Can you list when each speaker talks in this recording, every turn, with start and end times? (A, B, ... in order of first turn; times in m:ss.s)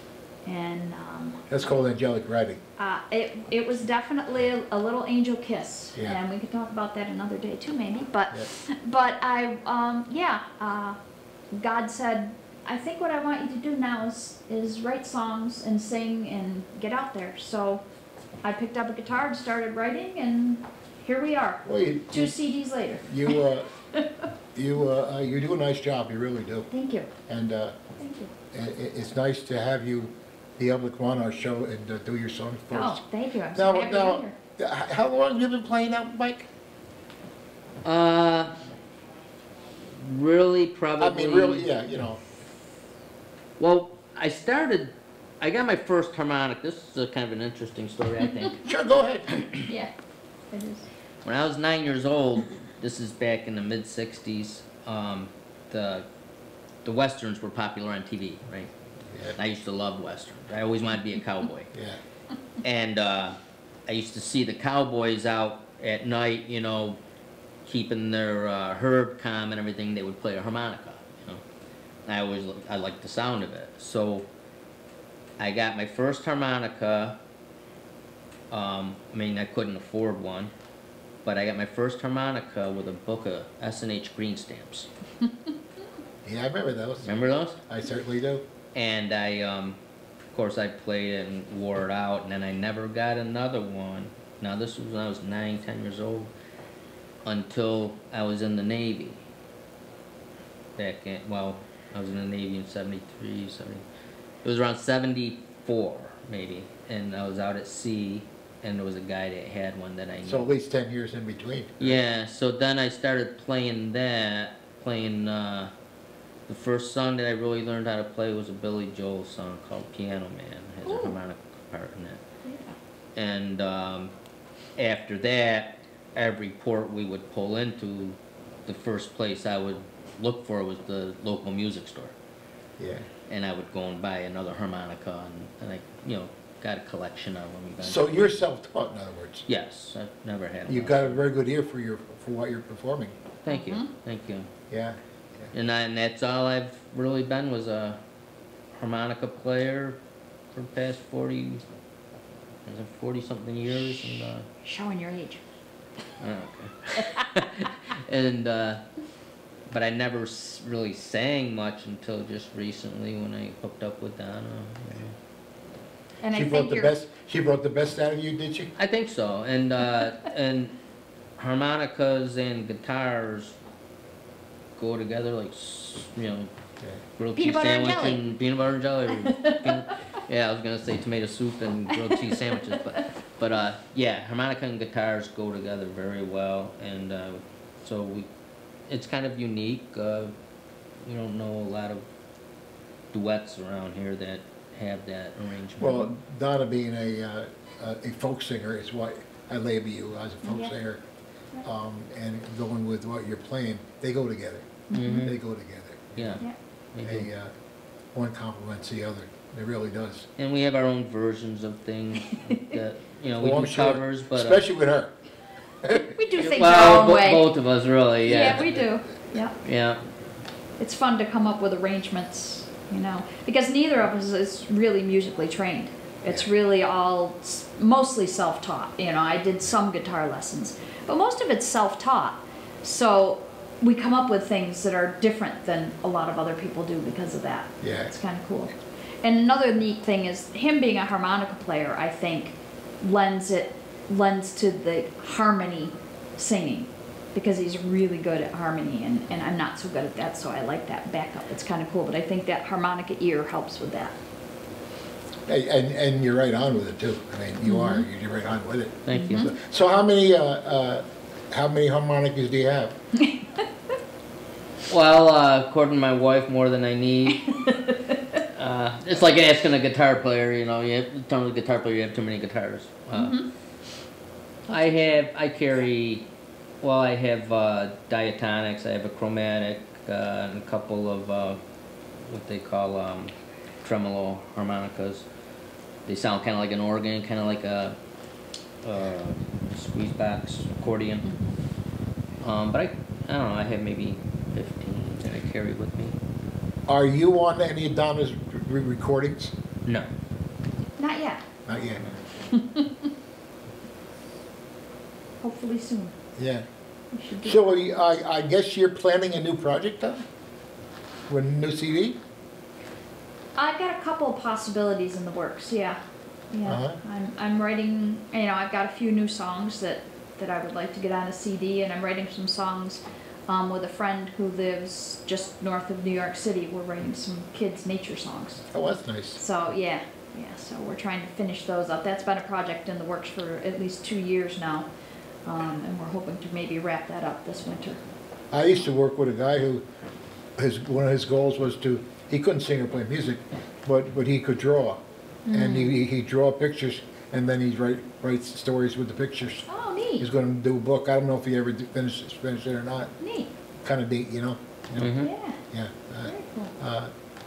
0:00.4-0:01.4 A
0:01.5-0:02.6 B
0:02.8-0:11.0 A
0:11.5-0:17.8 A
0:18.4-0:23.4 A
0:21.6-0:22.3 B
0:23.1-0:23.7 B
0:23.9-0:24.2 A
0:24.5-0:26.7 B
0:26.7-0:27.1 A
0:27.3-0:27.7 B
0:28.0-0:28.3 A
0:28.5-0:33.0 B
0:32.7-0:34.4 A
0:33.5-0:36.5 B
0:37.8-0:38.6 C
0:39.9-0:41.7 C
0:41.0-0:42.2 B
0:43.6-0:48.7 C
0:48.6-0:49.3 B
0:49.5-0:49.9 A
0:50.5-0:50.9 A
0:51.2-0:56.0 C
0:56.8-0:58.7 C
0:59.4-1:01.7 C
1:01.7-1:02.0 B
1:02.6-1:07.0 C
1:07.6-1:11.4 C
1:12.0-1:14.3 C
1:15.4-1:17.2 C
1:18.5-1:20.5 C
1:21.2-1:24.9 C
1:26.2-1:28.4 B
1:27.0-1:27.6 C
1:28.7-1:29.8 C
1:30.3-1:36.3 C
1:37.2-1:39.2 C
1:40.8-1:43.8 C
1:44.4-1:50.5 C
1:50.2-1:52.0 B
1:51.8-1:55.7 C
1:56.5-2:02.2 C
2:00.8-2:01.2 A
2:02.4-2:02.8 A
2:03.1-2:04.1 C
2:04.8-2:12.1 C
2:12.8-2:13.1 B
2:13.3-2:18.3 C
2:17.8-2:19.4 B
2:19.5-2:21.2 C
2:20.7-2:23.2 B
2:23.4-2:24.5 C
2:23.5-2:23.9 A
2:24.7-2:25.5 B
2:25.5-2:28.0 C
2:28.7-2:30.0 C
2:30.5-2:31.6 C
2:32.6-2:34.5 C
2:34.6-2:35.4 A
2:36.2-2:38.8 C
2:39.7-2:45.2 C
2:46.2-2:46.9 A
2:46.3-2:48.7 B
2:48.8-2:50.8 C
2:51.4-2:53.6 C
2:54.8-2:56.5 C
2:57.2-3:08.3 C
2:57.4-2:58.2 A
2:59.1-2:59.9 A
3:02.1-3:02.8 A
3:08.9-3:10.3 C
3:11.0-3:12.0 C
3:13.1-3:16.1 C
3:15.8-3:21.0 B
3:20.4-3:20.7 A
3:21.6-3:26.4 B
3:24.9-3:25.3 A
3:24.9-3:25.3 C
3:26.2-3:27.3 C
3:27.0-3:27.5 B
3:28.1-3:30.3 B
3:30.4-3:34.6 C
3:33.4-3:35.1 B
3:35.8-3:36.1 B
3:36.1-3:37.5 A
3:36.4-3:38.8 C
3:38.2-3:39.6 A
3:39.6-3:40.0 C
3:40.8-4:14.2 A
3:57.8-3:58.1 B
4:15.5-4:23.0 B
4:17.6-4:18.0 A
4:19.0-4:19.5 C
4:19.1-4:19.5 A
4:23.1-4:23.6 A
4:24.9-4:27.5 C
4:27.4-4:28.4 A
4:28.5-4:33.4 C
4:33.1-4:33.5 A
4:34.7-4:36.2 C
4:36.8-4:41.6 C
4:42.2-4:45.2 C
4:46.0-4:48.0 C
4:48.8-4:51.3 C
4:51.2-4:51.5 A
4:52.4-4:56.2 C
4:56.9-4:59.5 B
5:01.0-5:01.4 A
5:01.6-5:02.0 B
5:02.4-5:03.1 A
5:05.4-5:06.1 A
5:06.4-5:06.6 B
5:07.1-5:08.0 A
5:07.4-5:10.2 B
5:11.3-5:12.2 B
5:13.5-5:28.7 A
5:16.6-5:17.0 B
5:28.7-5:29.4 B
5:29.4-5:34.9 A
5:35.4-5:38.0 A
5:38.5-5:39.8 B
5:40.6-5:49.6 B
5:45.4-5:46.0 A
5:49.7-5:50.3 A
5:50.2-5:53.1 B
5:53.2-5:53.5 A
5:53.8-5:57.1 B
5:55.0-5:55.3 C
5:55.2-5:55.6 A
5:56.2-5:56.7 A